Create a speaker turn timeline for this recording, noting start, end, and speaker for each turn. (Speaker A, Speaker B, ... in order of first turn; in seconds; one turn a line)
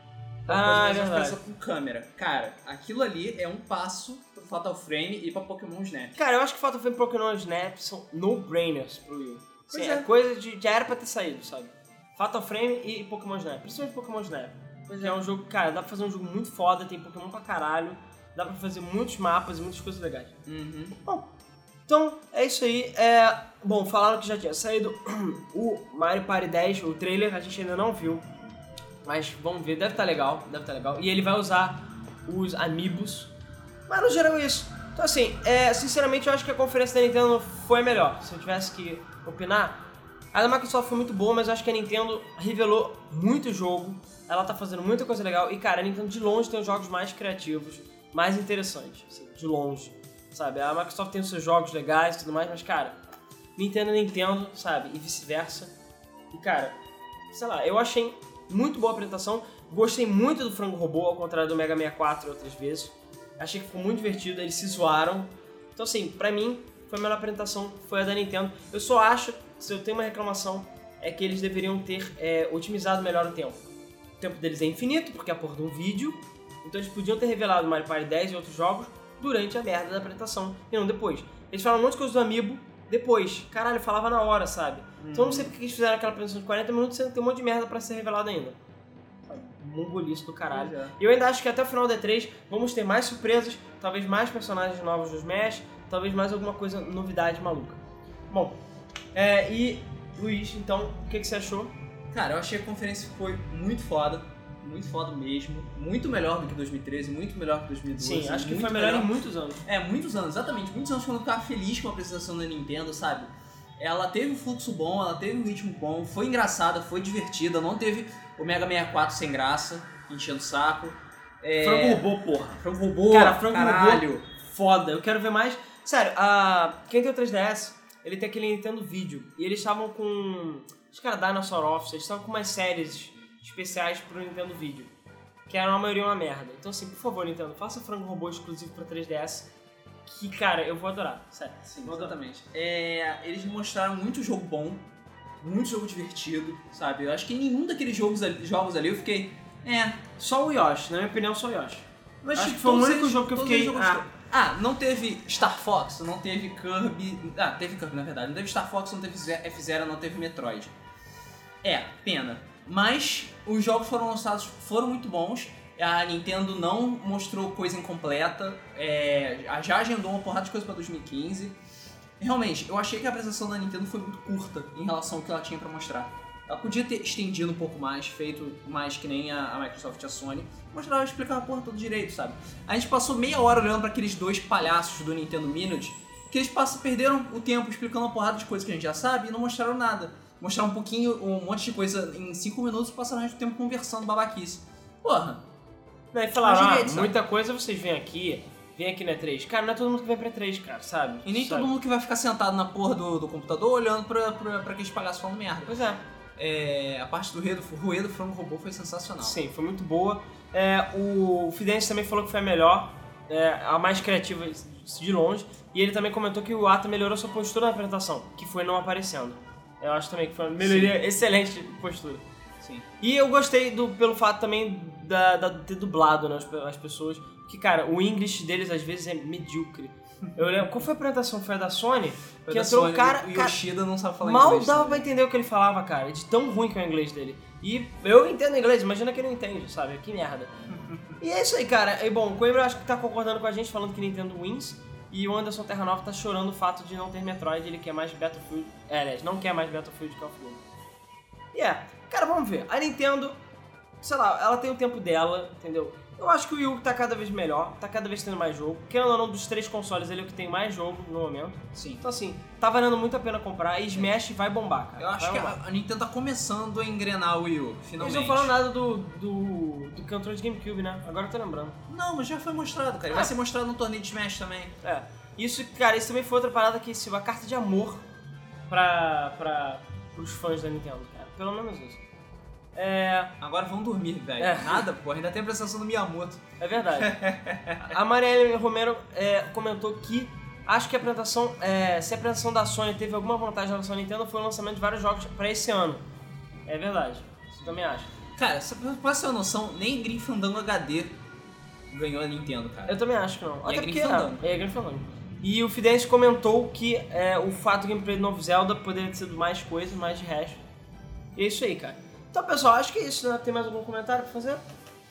Speaker A: 0.5-6.2
Speaker B: 0.5-1.4
Speaker B: 6.2-20.4
Speaker A: 9.7-10.1
Speaker A: 14.9-15.2
Speaker A: 20.5-21.0
Speaker B: 21.9-28.3
Speaker B: 29.0-33.3
Speaker B: 33.9-39.8
Speaker B: 40.3-53.0
Speaker B: 53.6-55.7
Speaker B: 56.3-56.8
Speaker B: 57.3-73.7
Speaker B: 74.2-88.6
Speaker A: 85.0-85.5
Speaker B: 89.3-98.6
Speaker A: 90.5-90.9
Speaker B: 99.1-101.7
Speaker A: 102.1-124.2
Speaker B: 108.0-109.6
Speaker B: 121.6-122.6
Speaker B: 123.1-134.9
Speaker B: 135.5-139.5
Speaker B: 140.1-142.2
Speaker A: 141.7-144.9
Speaker A: 145.4-150.0
Speaker B: 150.2-154.1
Speaker A: 152.3-160.7
Speaker A: 161.6-171.6
Speaker A: 172.2-195.4
Speaker B: 196.1-201.7
Speaker A: 196.4-197.2
Speaker A: 201.2-205.8
Speaker B: 205.7-206.0
Speaker A: 206.4-209.4
Speaker B: 209.2-222.2
Speaker A: 220.6-220.9
Speaker A: 222.6-222.9
Speaker B: 223.0-233.6
Speaker A: 232.4-235.1
Speaker B: 234.2-240.5
Speaker B: 241.2-250.6
Speaker B: 251.5-253.3
Speaker B: 254.0-265.6
Speaker A: 261.8-262.0
Speaker A: 265.0-268.5
Speaker B: 268.0-271.8
Speaker A: 271.9-274.7
Speaker B: 274.8-278.1
Speaker B: 278.7-282.0
Speaker B: 282.8-283.4
Speaker A: 283.4-287.9
Speaker B: 284.4-284.9
Speaker B: 286.6-287.1
Speaker B: 287.8-296.0
Speaker B: 296.7-298.1
Speaker A: 298.4-301.2
Speaker A: 301.9-303.0
Speaker B: 302.9-310.6
Speaker A: 303.6-304.4
Speaker B: 311.4-314.6